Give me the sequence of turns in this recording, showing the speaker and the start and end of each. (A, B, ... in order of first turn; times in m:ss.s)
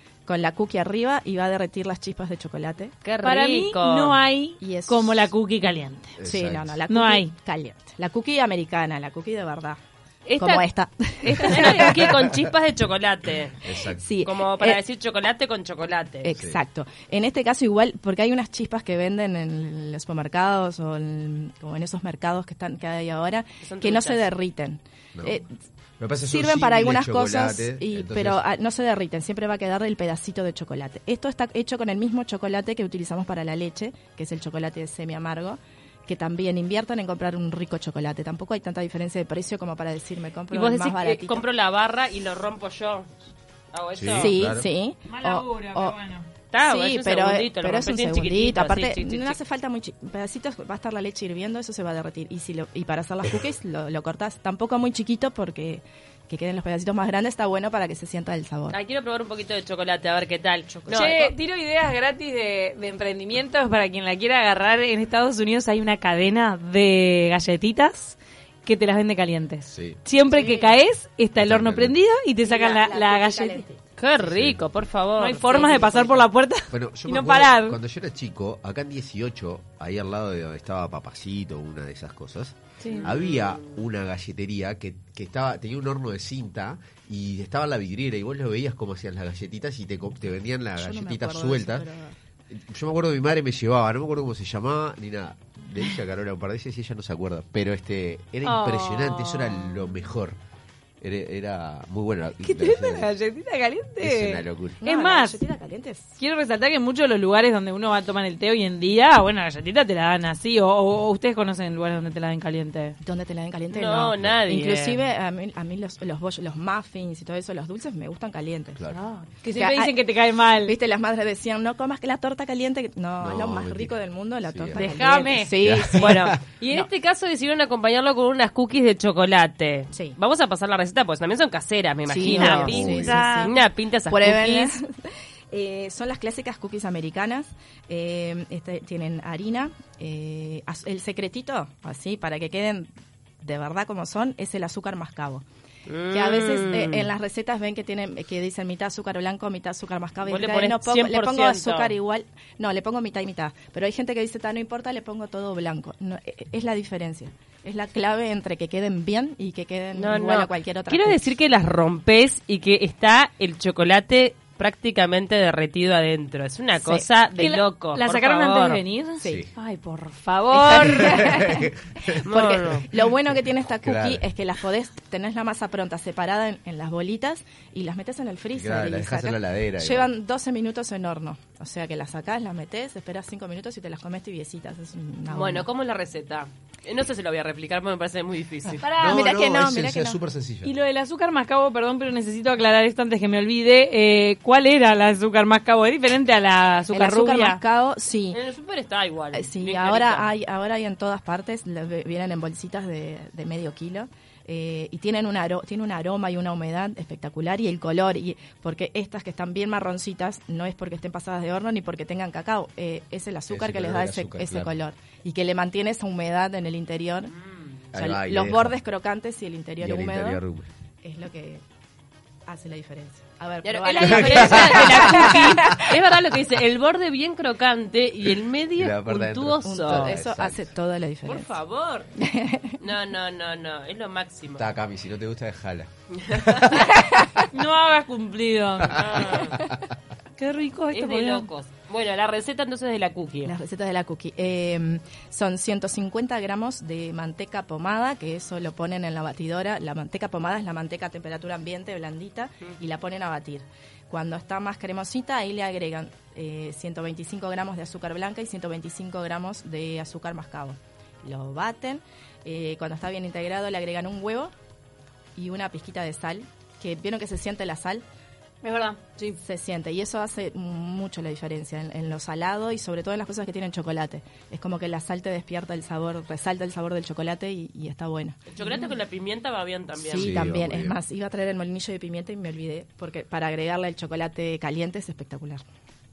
0:00.3-0:02.9 A
0:03.0-0:04.2 B
0:03.2-0:06.1 C
0:04.6-0:05.3 A
0:06.2-0:06.8 D
0:06.3-0:09.8 A
0:06.9-0:07.3 C
0:10.2-0:10.6 B
0:10.4-0:12.3 A
0:11.2-0:13.6 B
0:13.6-0:14.0 D
0:13.8-0:14.8 A
0:14.2-0:16.3 B
0:16.2-0:25.5 A
0:23.6-0:24.3 B
0:25.1-0:25.4 D
0:26.0-0:28.4 D
0:26.2-0:41.4 A
0:40.5-0:43.1 B
0:43.7-0:44.3 B
0:44.0-0:44.6 D
0:44.2-0:46.0 A
0:45.1-0:46.3 C
0:46.5-0:49.4 B
0:46.6-0:58.8 A
0:58.7-1:01.3 B
1:00.9-1:01.2 A
1:00.9-1:13.7 C
1:09.7-1:10.0 D
1:10.3-1:10.8 A
1:11.4-1:12.0 D
1:12.4-1:13.7 A
1:14.0-1:15.9 B
1:14.2-1:14.6 D
1:15.2-1:17.8 C
1:15.5-1:16.2 A
1:16.7-1:31.8 D
1:22.8-1:23.1 C
1:23.0-1:23.8 B
1:30.7-1:32.1 A
1:32.5-1:40.4 D
1:38.4-1:39.8 C
1:41.0-1:43.1 D
1:42.4-1:45.4 C
1:44.0-1:44.8 D
1:44.8-1:46.1 A
1:46.2-1:53.0 C
1:53.0-1:58.8 A
1:53.7-1:55.0 B
1:58.9-2:00.8 C
1:59.5-2:00.0 A
2:00.6-2:06.9 A
2:03.2-2:04.0 D
2:04.5-2:06.4 D
2:04.7-2:05.6 C
2:06.0-2:14.8 B
2:12.1-2:13.5 A
2:12.2-2:13.5 C
2:12.6-2:13.2 D
2:14.1-2:22.9 A
2:23.4-2:25.4 A
2:25.9-2:27.1 B
2:26.1-2:41.2 A
2:30.2-2:31.9 B
2:39.9-2:48.8 B
2:47.4-2:51.3 C
2:49.2-2:49.4 A
2:49.2-2:49.5 D
2:50.5-3:05.7 A
2:50.9-2:52.2 D
2:52.2-2:52.9 B
2:53.7-2:54.2 D
2:58.5-3:00.1 D
3:05.3-3:08.8 B
3:08.8-3:09.4 C
3:08.9-3:10.7 D
3:09.0-3:10.2 A
3:10.6-3:17.6 C
3:16.9-3:18.4 A
3:18.3-3:20.3 B
3:19.3-3:37.3 A
3:33.5-3:34.7 D
3:37.9-3:38.7 D
3:37.9-3:40.4 A
3:39.8-3:40.7 D
3:41.0-3:41.6 A
3:42.5-3:45.9 A
3:43.6-3:50.2 B
3:44.0-3:45.2 D
3:48.8-3:50.6 D
3:49.6-3:51.5 A
3:51.2-3:52.1 B
3:52.2-3:52.8 A
3:52.8-3:54.7 B
3:54.6-3:56.9 D
3:56.2-3:56.7 B
3:57.0-3:57.2 A
3:57.5-3:59.2 C
3:58.8-3:59.7 D
3:58.9-3:59.5 B
4:00.4-4:01.5 C
4:00.9-4:03.5 B
4:03.4-4:24.5 A
4:25.4-4:28.0 A
4:28.6-4:29.4 C
4:29.4-4:38.4 A
4:38.5-4:40.3 B
4:38.6-4:38.9 C
4:40.1-4:45.6 A
4:40.1-4:41.0 D